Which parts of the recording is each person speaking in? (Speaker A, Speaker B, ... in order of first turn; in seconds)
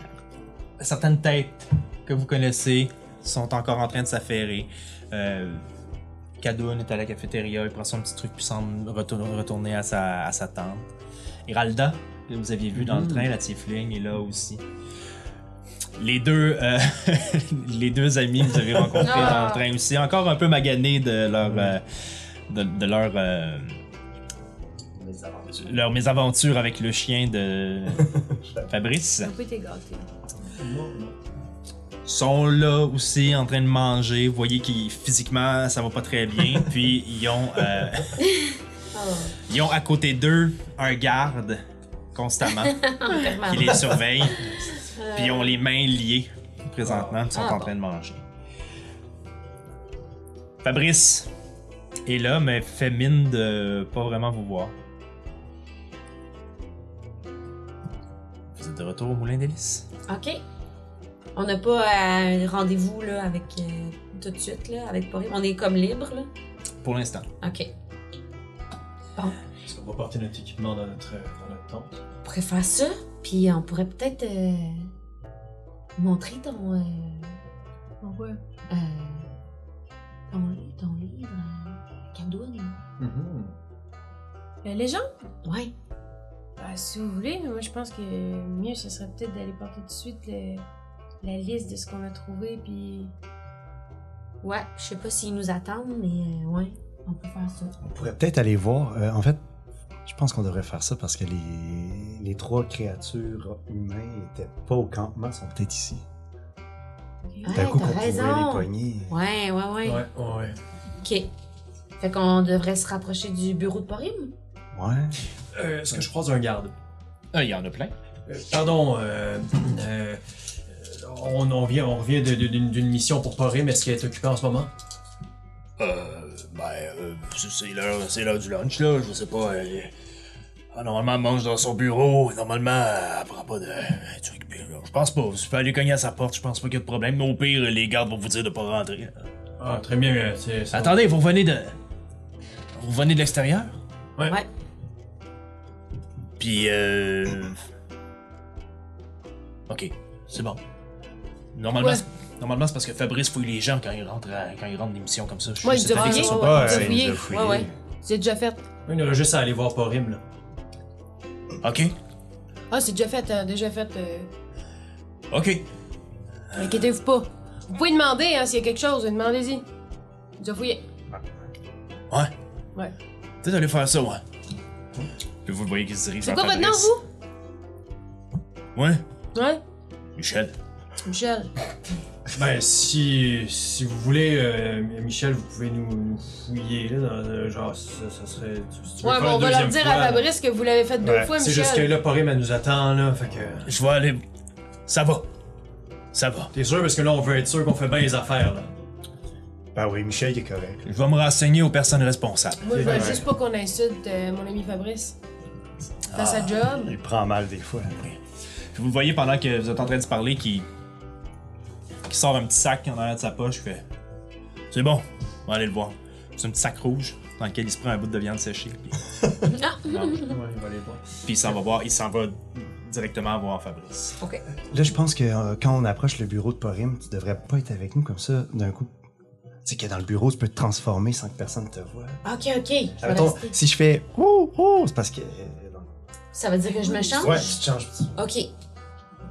Speaker A: 0.8-5.6, 6.4-10.9, 11.5-14.6, 16.0-23.7, 25.0-29.3, 32.1-38.2, 39.5-41.6, 42.1-42.8, 43.4-44.5, 45.1-48.2, 50.6-51.3, 52.1-54.7, 58.6-59.9, 66.8-67.3, 117.3-117.9, 125.8-129.9, 130.7-139.3, 140.7-141.7, 142.8-143.7, 146.4-147.6, 149.7-150.6, 151.6-157.0, 161.6-161.9, 165.3-165.6, 166.5-166.8, 173.4-174.2, 175.4-176.9, 178.8-179.0, 180.2-180.5, 193.7-194.2, 194.9-195.3, 196.1-196.5, 200.9-203.2, 206.1-206.7, 208.7-210.7, 212.1-213.8, 214.7-219.0, 219.9-220.2, 221.2-224.2
Speaker B: 12.7-13.3, 21.4-21.7, 30.4-31.2, 46.8-47.3, 69.6-72.0, 83.0-83.5, 109.8-110.6, 115.5-116.7, 118.3-124.7, 139.6-141.0, 158.9-160.2, 182.3-190.3, 191.4-193.7, 196.5-198.7, 220.2-221.6
Speaker C: 19.0-19.6, 38.2-39.4, 42.6-43.9, 44.8-45.6, 47.3-47.7, 60.1-60.4, 61.4-66.3, 67.4-67.7, 72.2-74.9, 76.0-77.4, 78.7-79.3, 80.3-82.8, 85.4-85.7, 94.4-97.8, 107.4-110.0, 111.0-111.3, 112.0-114.3, 157.2-157.7, 219.4-220.4, 232.2-233.5, 236.3-237.5, 238.2-238.5
Speaker D: 29.2-30.1, 78.0-78.4, 84.6-85.1, 86.6-90.6, 91.2-93.1, 107.3-107.6, 155.6-157.3, 158.0-158.6, 162.7-164.3, 166.6-169.6, 170.4-170.8, 176.2-177.0, 179.3-179.6, 181.0-181.5, 189.0-192.0, 202.6-205.2, 206.1-206.9, 236.8-237.5
Speaker E: 97.8-99.4, 100.1-106.0, 107.5-109.1, 114.7-115.1, 156.0-157.7, 191.0-191.3, 199.7-200.8, 202.7-203.3, 206.7-208.0, 224.7-228.9, 229.6-232.2, 233.0-235.9, 237.2-238.1